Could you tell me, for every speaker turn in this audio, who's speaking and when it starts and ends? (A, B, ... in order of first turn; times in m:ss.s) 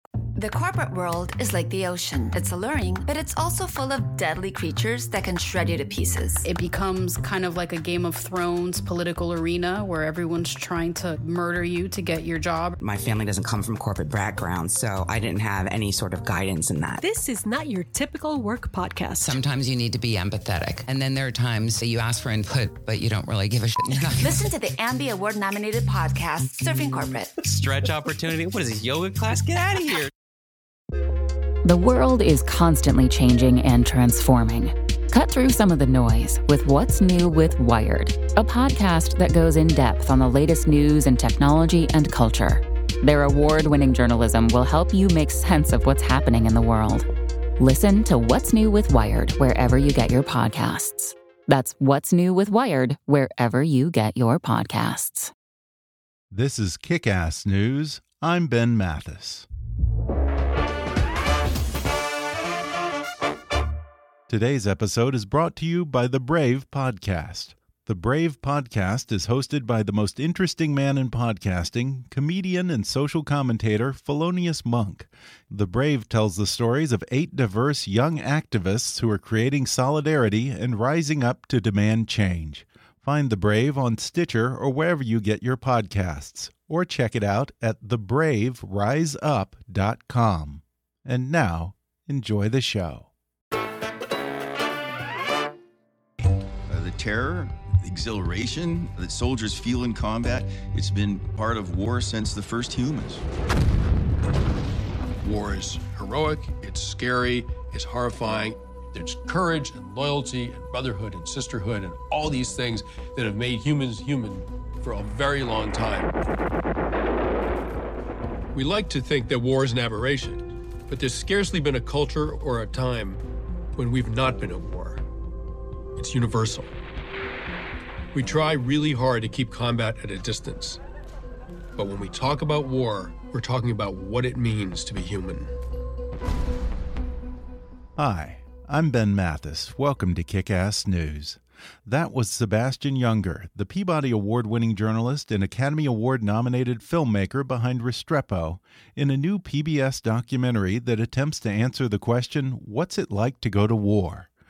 0:00.4-0:06.4 A
0:06.4-0:12.8 B
0:12.8-0:17.0 C
0:17.0-0:19.4 D
0:19.2-0:24.4 E
0:24.2-0:27.4 A
0:27.4-0:30.1 F
0:31.6-0:47.1 G
0:47.6-0:55.3 G
0:56.3-0:59.5 H
1:04.3-1:33.1 H
1:36.7-1:43.2 I
1:45.2-1:56.1 J
1:58.6-2:03.2 J
2:03.8-2:05.0 J
2:06.0-2:06.7 J
2:08.1-2:10.8 J
2:11.8-2:15.5 J
2:18.0-2:34.3 H